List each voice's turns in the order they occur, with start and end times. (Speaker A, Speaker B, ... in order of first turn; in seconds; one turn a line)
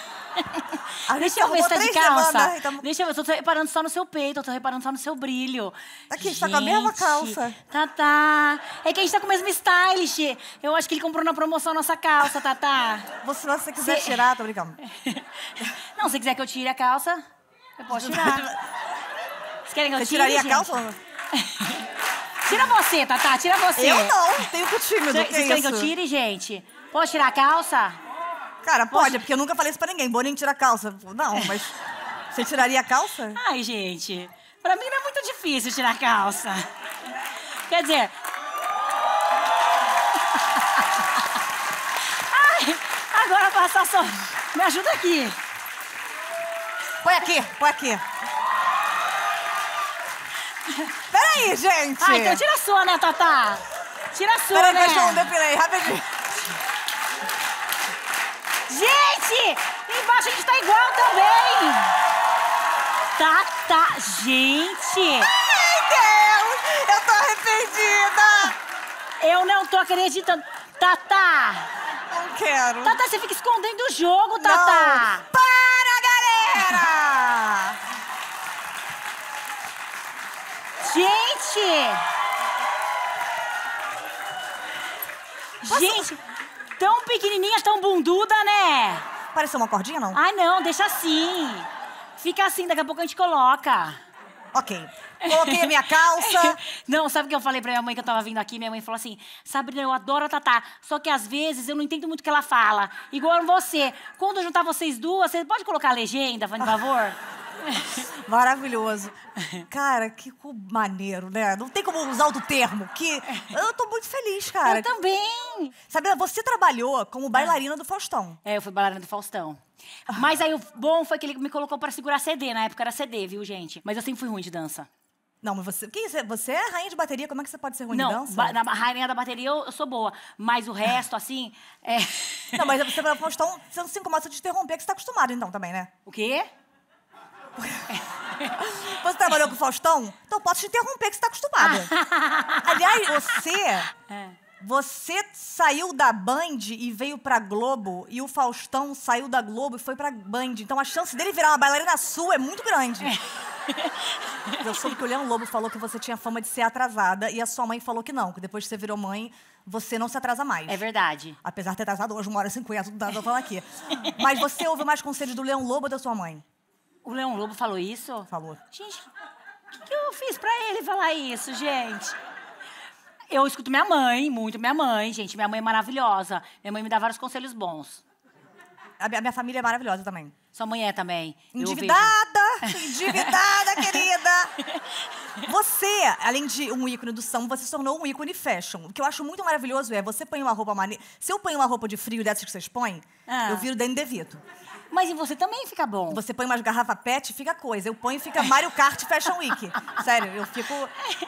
Speaker A: 0.3-13.1
Speaker B: 1.1-2.8
Speaker B: 6.1-7.6
Speaker B: 13.2-14.8
Speaker A: 13.8-14.2
Speaker A: 14.8-17.2
Speaker A: 17.8-18.5
Speaker B: 17.9-18.6
Speaker A: 19.7-20.8
Speaker B: 19.9-21.0
Speaker A: 21.3-21.8
Speaker A: 22.4-24.5
Speaker B: 23.8-25.9
Speaker A: 25.1-28.0
Speaker B: 28.6-31.8
Speaker A: 28.9-29.2
Speaker B: 32.3-33.4
Speaker A: 33.3-36.6
Speaker A: 37.7-38.1
Speaker A: 40.5-41.0
Speaker A: 42.1-45.4
Speaker B: 47.0-48.0
Speaker A: 50.7-50.9
Speaker B: 51.1-52.4
Speaker A: 52.0-55.3
Speaker B: 54.5-56.2
Speaker A: 58.7-61.9
Speaker A: 63.1-65.3
Speaker B: 65.3-68.6
Speaker A: 69.2-71.7
Speaker B: 72.1-73.0
Speaker A: 72.8-75.3
Speaker B: 74.4-77.8
Speaker A: 80.8-82.0
Speaker A: 85.6-86.2
Speaker B: 85.7-86.1
Speaker A: 86.8-89.0
Speaker B: 89.3-90.2
Speaker A: 90.1-94.0
Speaker B: 94.5-96.6
Speaker A: 95.2-108.0
Speaker B: 107.9-109.1
Speaker B: 109.7-114.9
Speaker A: 114.6-115.7
Speaker B: 115.9-118.4
Speaker A: 118.4-124.9
Speaker B: 125.4-128.6
Speaker A: 127.9-132.6
Speaker B: 132.5-135.9
Speaker A: 136.1-136.5
Speaker B: 137.6-137.8
Speaker A: 137.9-138.6
Speaker B: 138.5-141.9
Speaker A: 141.6-142.8
Speaker B: 142.6-143.9
Speaker B: 144.6-153.1
Speaker A: 153.0-154.6
Speaker B: 154.6-160.8
Speaker A: 160.7-161.4
Speaker B: 161.4-166.4
Speaker A: 167.0-169.1
Speaker B: 168.3-168.6
Speaker A: 169.8-172.2
Speaker A: 173.3-178.0
Speaker B: 179.0-180.3
Speaker A: 180.5-184.0
Speaker B: 181.5-184.5
Speaker B: 185.4-194.4
Speaker A: 193.3-193.7
Speaker A: 194.9-196.2
Speaker B: 196.1-200.9